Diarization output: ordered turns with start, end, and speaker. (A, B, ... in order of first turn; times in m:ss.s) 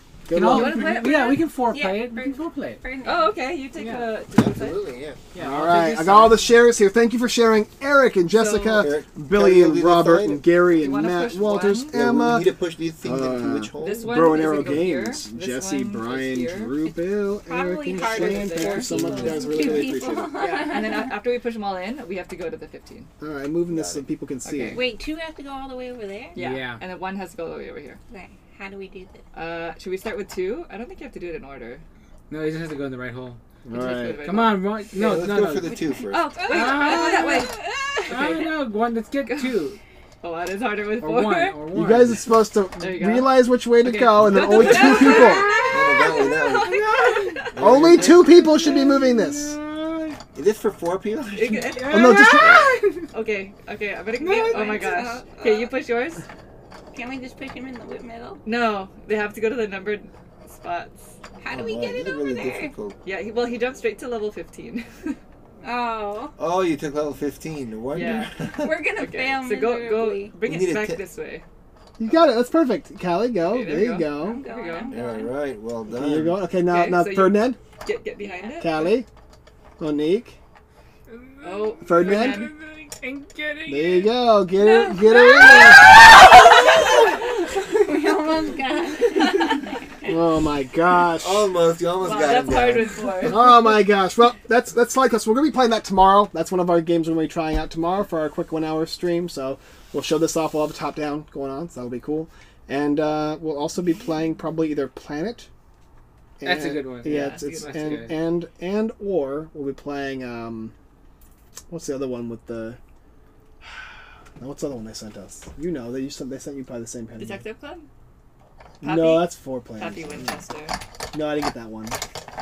0:00.3-0:01.0 A
0:00.3-0:02.8 B
0:00.4-0:03.4 C
0:03.0-0:04.8 D
0:03.8-0:04.1 B
0:04.3-0:05.2 E
0:05.3-0:06.3 D
0:05.4-0:06.5 B
0:05.4-0:20.4 A
0:08.3-0:08.9 D
0:08.8-0:10.5 E
0:10.7-0:11.9 D
0:11.9-0:14.6 E
0:13.8-0:16.9 D
0:17.5-0:21.1 C
0:17.9-0:23.1 D
0:18.9-0:19.4 E
0:23.2-0:24.9 A
0:23.7-0:24.1 E
0:24.4-0:24.8 D
0:24.7-0:26.4 C
0:26.4-0:28.0 D
0:26.4-0:26.8 B
0:28.1-0:29.2 C
0:29.3-0:31.8 D
0:32.3-0:33.4 B
0:33.6-0:34.2 A
0:33.7-0:34.7 D
0:34.2-0:35.8 B
0:34.9-0:36.3 E
0:36.1-0:38.6 D
0:36.4-0:38.3 C
0:36.5-0:37.5 B
0:38.1-0:39.8 B
0:39.3-0:39.6 D
0:40.2-0:41.6 D
0:41.0-0:42.3 B
0:41.7-0:45.6 A
0:42.8-0:47.6 D
0:43.8-0:45.9 B
0:44.4-0:46.8 E
0:45.2-0:46.5 C
0:46.9-0:47.4 B
0:47.5-0:48.5 E
0:47.6-0:49.6 A
0:48.5-0:50.2 B
0:50.4-0:51.8 E
0:51.3-0:56.2 D
0:51.7-0:53.0 B
0:51.9-0:52.7 A
0:54.2-0:54.9 B
0:54.4-0:55.7 C
0:56.9-0:58.4 C
0:58.4-1:01.2 D
1:01.4-1:02.8 C
1:01.5-1:03.0 E
1:03.0-1:05.2 D
1:05.6-1:06.4 C
1:06.4-1:08.9 E
1:07.9-1:08.3 D
1:08.2-1:10.4 C
1:08.9-1:11.4 D
1:10.5-1:11.0 E
1:12.0-1:14.4 A
1:13.4-1:15.0 D
1:14.1-1:15.3 C
1:14.9-1:16.4 E
1:15.9-1:17.6 A
1:16.6-1:19.0 D
1:18.2-1:18.9 C
1:18.6-1:19.1 A
1:19.8-1:20.4 A
1:21.1-1:24.2 B
1:21.4-1:22.5 D
1:21.8-1:22.5 A
1:23.7-1:26.0 A
1:24.6-1:27.2 D
1:25.1-1:27.2 C
1:27.8-1:30.1 C
1:30.0-1:31.5 A
1:31.2-1:33.5 E
1:32.0-1:33.5 D
1:33.3-1:45.5 A
1:46.4-1:50.7 A
1:46.4-1:48.2 B
1:47.0-1:48.1 D
1:51.7-1:52.8 A
1:54.4-1:57.4 A
1:57.2-1:57.9 D
1:58.8-2:00.3 A
1:58.8-2:00.8 D
2:00.1-2:00.4 E
2:01.1-2:02.0 A